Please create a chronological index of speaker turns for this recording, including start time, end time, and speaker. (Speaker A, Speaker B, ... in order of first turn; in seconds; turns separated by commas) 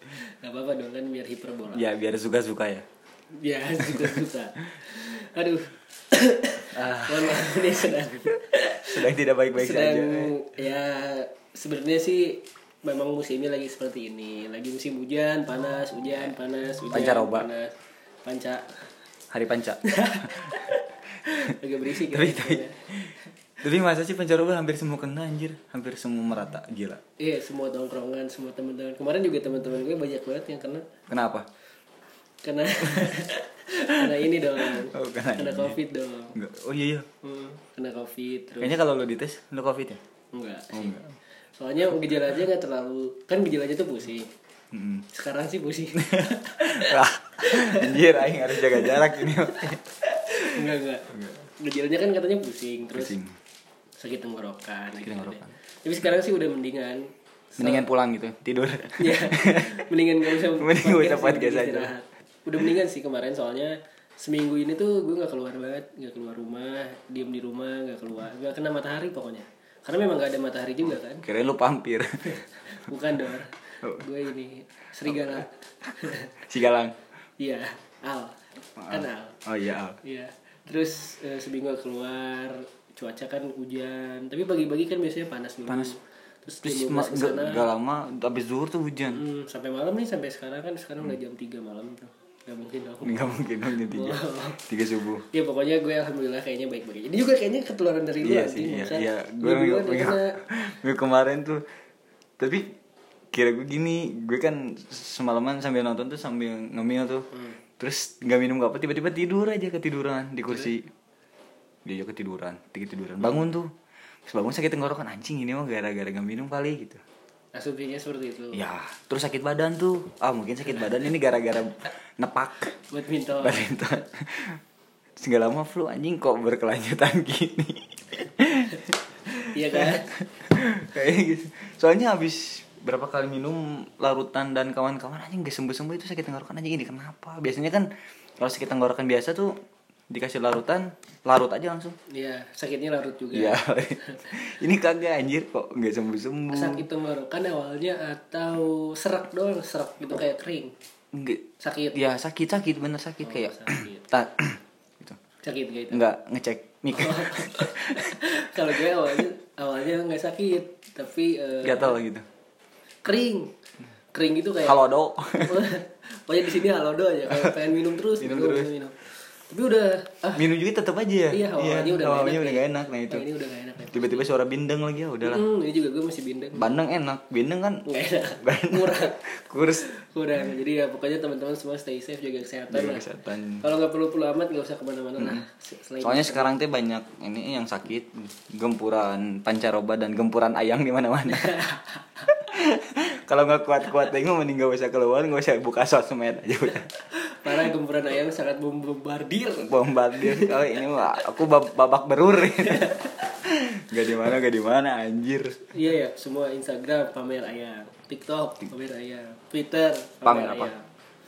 Speaker A: 0.2-1.8, Speaker B: 1.7-2.9, Speaker A: 3.4-18.7, Speaker B: 3.9-4.2, Speaker B: 6.7-7.8, Speaker B: 8.8-10.3, Speaker B: 16.9-17.5, Speaker B: 19.3-20.5, Speaker A: 19.9-22.8, Speaker B: 22.1-27.0, Speaker A: 27.2-30.9, Speaker B: 31.1-31.5, Speaker A: 32.4-36.4, Speaker B: 32.9-33.1, Speaker B: 34.0-35.8, Speaker B: 36.4-37.1, Speaker A: 37.2-38.7, Speaker B: 38.6-40.0, Speaker A: 40.3-41.0, Speaker B: 40.7-41.0, Speaker A: 41.6-44.3, Speaker B: 44.7-45.1, Speaker A: 45.1-53.2, Speaker B: 46.0-49.8, Speaker B: 53.0-53.3, Speaker A: 54.0-57.9, Speaker B: 55.0-55.5, Speaker B: 57.6-61.9, Speaker A: 59.0-71.3, Speaker B: 71.2-72.3, Speaker A: 72.3-76.3, Speaker B: 75.0-75.5, Speaker B: 76.5-77.0, Speaker A: 77.4-79.4, Speaker B: 78.8-80.0, Speaker A: 80.0-87.7, Speaker B: 85.7-85.9, Speaker B: 86.6-89.2, Speaker A: 89.1-94.6, Speaker B: 93.0-95.2, Speaker A: 95.3-100.4, Speaker B: 98.2-101.7, Speaker B: 102.4-102.7, Speaker B: 103.3-107.3, Speaker A: 107.3-107.6, Speaker B: 107.8-110.9, Speaker B: 111.8-113.7, Speaker B: 114.3-117.0, Speaker A: 117.5-118.6, Speaker B: 118.5-122.8, Speaker A: 122.9-124.0, Speaker B: 123.4-124.6, Speaker B: 125.2-128.8, Speaker A: 128.8-130.1, Speaker B: 129.7-139.6, Speaker B: 140.1-142.0, Speaker A: 142.1-144.2, Speaker B: 143.3-146.8, Speaker A: 146.5-150.7, Speaker B: 151.1-155.2, Speaker A: 151.6-152.0, Speaker A: 153.2-154.2, Speaker A: 155.4-156.1, Speaker B: 155.9-158.2, Speaker A: 156.9-162.0, Speaker B: 161.6-162.2, Speaker A: 163.1-163.5, Speaker A: 164.1-164.8, Speaker B: 164.6-165.6, Speaker A: 165.4-170.5, Speaker B: 167.3-167.6, Speaker B: 168.2-168.7, Speaker B: 170.3-173.3, Speaker A: 171.3-174.3, Speaker B: 173.9-175.4, Speaker A: 175.2-176.8, Speaker B: 176.6-177.8, Speaker A: 177.8-179.2, Speaker B: 178.4-179.9, Speaker A: 179.8-183.1, Speaker B: 182.7-183.6, Speaker A: 183.6-186.5, Speaker B: 185.2-185.4, Speaker B: 186.0-191.7, Speaker A: 191.3-192.3, Speaker B: 192.3-196.9, Speaker A: 197.1-201.3, Speaker B: 199.6-205.6, Speaker A: 202.6-203.3, Speaker A: 205.7-210.8, Speaker B: 210.2-210.7